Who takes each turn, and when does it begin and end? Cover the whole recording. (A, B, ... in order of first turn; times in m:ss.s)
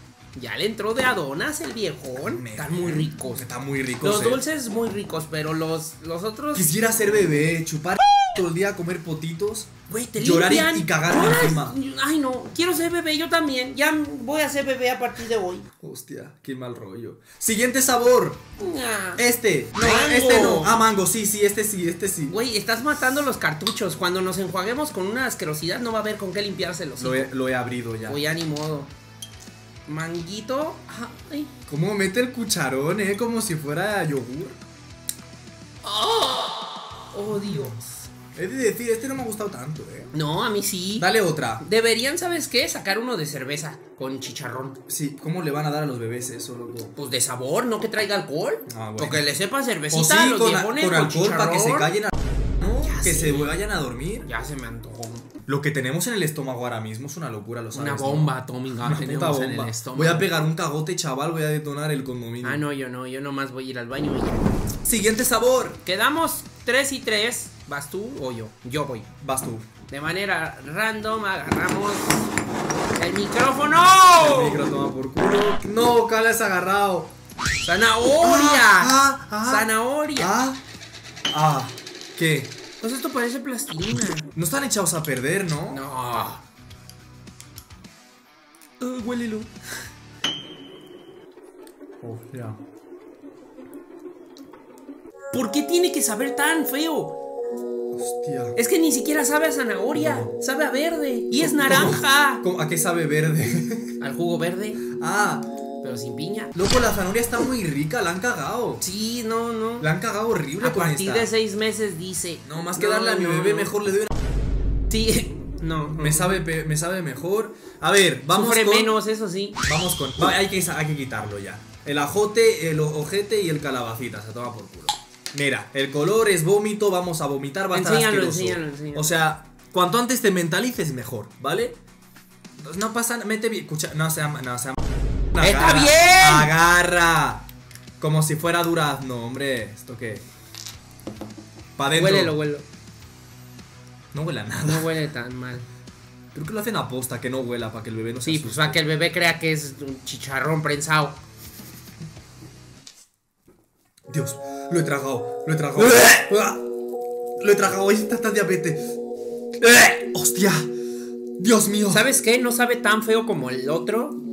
0:00.3-0:03.5 A
0:02.2-0:04.4 B
0:04.0-0:06.7 A
0:06.5-0:11.8 B
0:09.9-0:15.7 A
0:15.8-0:18.4 B
0:18.6-0:19.2 A
0:19.2-0:22.4 B
0:19.7-0:20.8 A
0:22.3-0:27.3 A
0:27.0-0:28.2 B
0:28.1-0:28.9 A
0:29.8-0:31.5 A
0:31.7-0:34.6 B
0:35.8-0:37.9 A
0:37.3-0:37.8 B
0:38.3-0:40.1 B
0:40.1-0:41.1 A
0:41.0-0:41.6 B
0:41.6-0:44.8 A
0:44.9-0:46.9 B
0:46.9-0:51.9 A
0:48.7-0:49.2 B
0:49.9-0:54.3 B
0:52.8-0:53.5 A
0:54.2-0:55.3 A
0:55.5-1:02.6 B
0:57.7-1:00.3 A
1:02.4-1:04.5 A
1:04.8-1:05.8 B
1:05.8-1:09.1 A
1:09.2-1:09.7 B
1:09.9-1:12.1 A
1:13.0-1:14.7 A
1:14.2-1:17.1 B
1:17.6-1:20.3 A
1:18.2-1:20.6 B
1:21.3-1:22.5 B
1:22.8-1:24.3 A
1:24.3-1:25.8 B
1:25.7-1:26.4 A
1:28.8-1:29.5 A
1:32.0-1:32.6 B
1:35.3-1:37.1 A
1:37.9-1:38.6 B
1:38.5-1:42.4 A
1:39.9-1:40.3 B
1:41.3-1:44.0 B
1:44.0-1:44.8 A
1:45.0-1:45.4 B
1:45.8-1:46.5 A
1:46.5-1:48.8 B
1:48.8-1:49.9 A
1:49.8-1:51.3 B
1:50.6-1:53.7 A
1:52.4-1:54.1 B
1:54.9-1:56.4 A
1:55.9-1:59.0 B
1:58.3-1:59.6 A
1:59.6-2:11.8 B
2:07.7-2:09.1 A
2:12.6-2:14.8 B
2:15.3-2:17.4 B
2:15.4-2:16.5 A
2:18.0-2:20.2 B
2:21.8-2:22.4 B
2:21.9-2:22.6 A
2:24.1-2:24.9 B
2:24.6-2:25.6 A
2:26.3-2:28.8 B
2:28.2-2:31.2 A
2:34.1-2:36.6 B
2:37.4-2:38.8 B
2:39.6-2:40.7 B
2:41.4-2:42.1 B
2:41.9-2:44.2 A